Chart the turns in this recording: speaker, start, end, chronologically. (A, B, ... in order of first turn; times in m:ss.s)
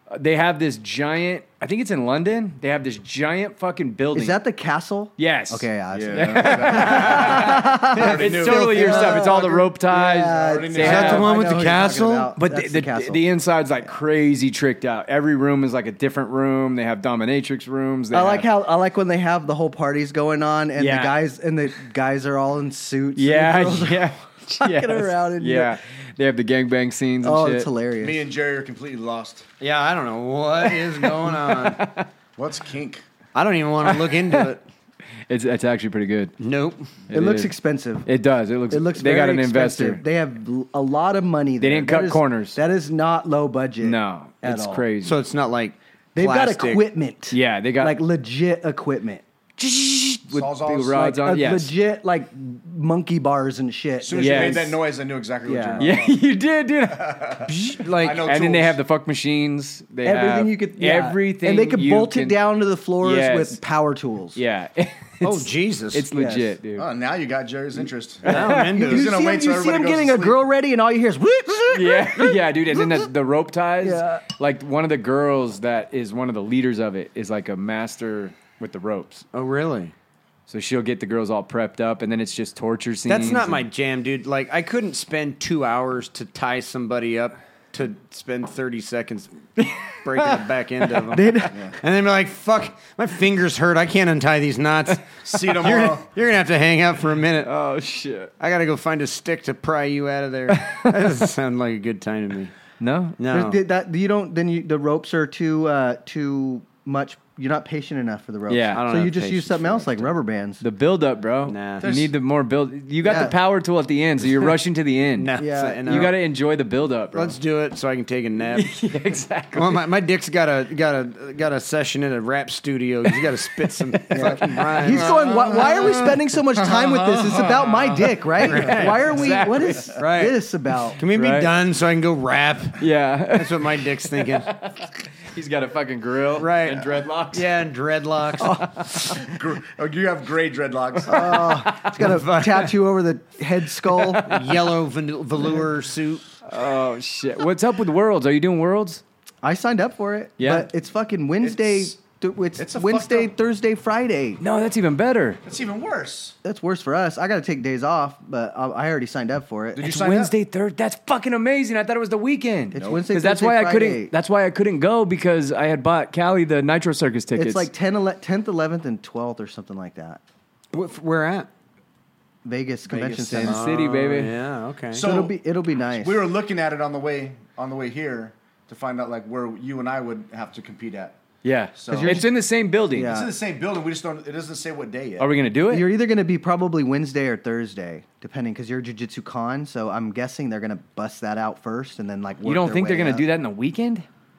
0:00.1-0:04.4 A
0:04.1-0:13.2 B
0:05.2-0:11.3 A
0:05.9-0:08.9 C
0:07.9-0:09.3 D
0:10.2-0:11.4 C
0:10.8-0:12.3 D
0:12.4-0:18.5 A
0:18.1-0:25.8 B
0:20.8-0:21.2 A
0:23.2-0:27.7 A
0:27.2-0:28.2 B
0:28.0-0:29.5 C
0:29.6-0:31.9 D
0:31.0-0:32.1 A
0:32.4-0:33.0 C
0:33.4-0:34.6 D
0:33.9-0:34.5 A
0:35.3-0:36.3 A
0:36.4-0:36.9 D
0:37.1-0:37.5 A
0:37.1-0:38.1 B
0:38.1-0:40.0 A
0:38.7-0:44.9 B
0:41.6-0:42.6 A
0:43.8-0:45.2 A
0:45.0-0:46.9 D
0:46.2-0:49.2 B
0:47.3-0:48.0 A
0:49.6-0:51.7 A
0:50.3-0:51.0 C
0:50.8-0:54.8 B
0:54.0-0:56.2 C
0:54.1-0:54.8 A
0:55.5-0:56.0 B
0:55.8-0:57.5 A
0:56.9-0:58.8 C
0:57.5-0:58.2 D
0:58.0-1:02.4 A
1:00.0-1:04.4 B
1:03.0-1:03.6 A
1:04.4-1:06.9 A
1:05.2-1:06.0 D
1:06.1-1:06.6 B
1:06.8-1:10.4 C
1:08.2-1:09.1 D
1:08.3-1:08.8 A
1:08.4-1:13.1 B
1:11.7-1:19.2 A
1:13.8-1:14.2 B
1:19.3-1:19.9 D
1:20.5-1:23.6 A
1:23.1-1:29.4 D
1:29.6-1:30.4 A
1:30.0-1:37.5 D
1:31.1-1:31.6 B
1:35.2-1:36.1 C
1:37.4-1:38.3 A
1:38.4-1:42.5 D
1:40.5-1:41.2 A
1:42.8-1:43.5 A
1:43.2-1:43.6 D
1:43.3-1:50.6 B
1:48.5-1:48.9 A
1:48.7-1:50.1 D
1:50.6-1:57.4 A
1:51.5-1:51.9 D
1:51.8-1:52.1 C
1:53.0-1:53.4 B
1:55.2-1:56.1 D
1:55.4-1:56.1 B
1:57.1-1:58.7 D
1:58.5-1:59.8 A
1:59.5-2:05.3 D
2:03.6-2:04.3 A
2:04.1-2:11.0 B
2:05.0-2:08.1 C
2:08.4-2:10.0 A
2:08.4-2:09.1 D
2:10.0-2:10.4 D
2:11.0-2:12.8 D
2:11.1-2:11.5 A
2:12.8-2:17.5 A
2:13.3-2:14.5 D
2:16.4-2:18.7 D
2:18.4-2:19.1 A
2:19.2-2:21.6 C
2:21.1-2:24.4 B
2:21.4-2:21.9 A
2:21.8-2:22.8 D
2:24.2-2:26.2 D
2:26.5-2:29.0 A
2:29.4-2:34.4 B
2:30.4-2:30.7 A
2:31.4-2:32.0 C
2:32.6-2:33.3 C
2:34.4-2:35.4 A
2:35.4-2:36.4 C
2:36.4-2:39.9 B
2:39.8-2:40.3 C
2:39.8-2:47.7 A
2:42.7-2:44.1 B
2:47.4-2:50.2 B
2:50.7-2:51.5 D
2:52.4-2:53.6 B
2:52.9-2:54.3 A
2:53.4-2:55.0 D
2:54.9-2:55.4 C
2:55.0-2:56.3 B
2:55.9-3:01.2 C
3:01.4-3:03.2 A
3:01.8-3:02.3 C
3:01.9-3:02.3 B
3:02.9-3:03.4 B
3:03.0-3:05.3 C
3:05.2-3:05.9 A
3:05.7-3:13.2 B
3:12.4-3:14.1 A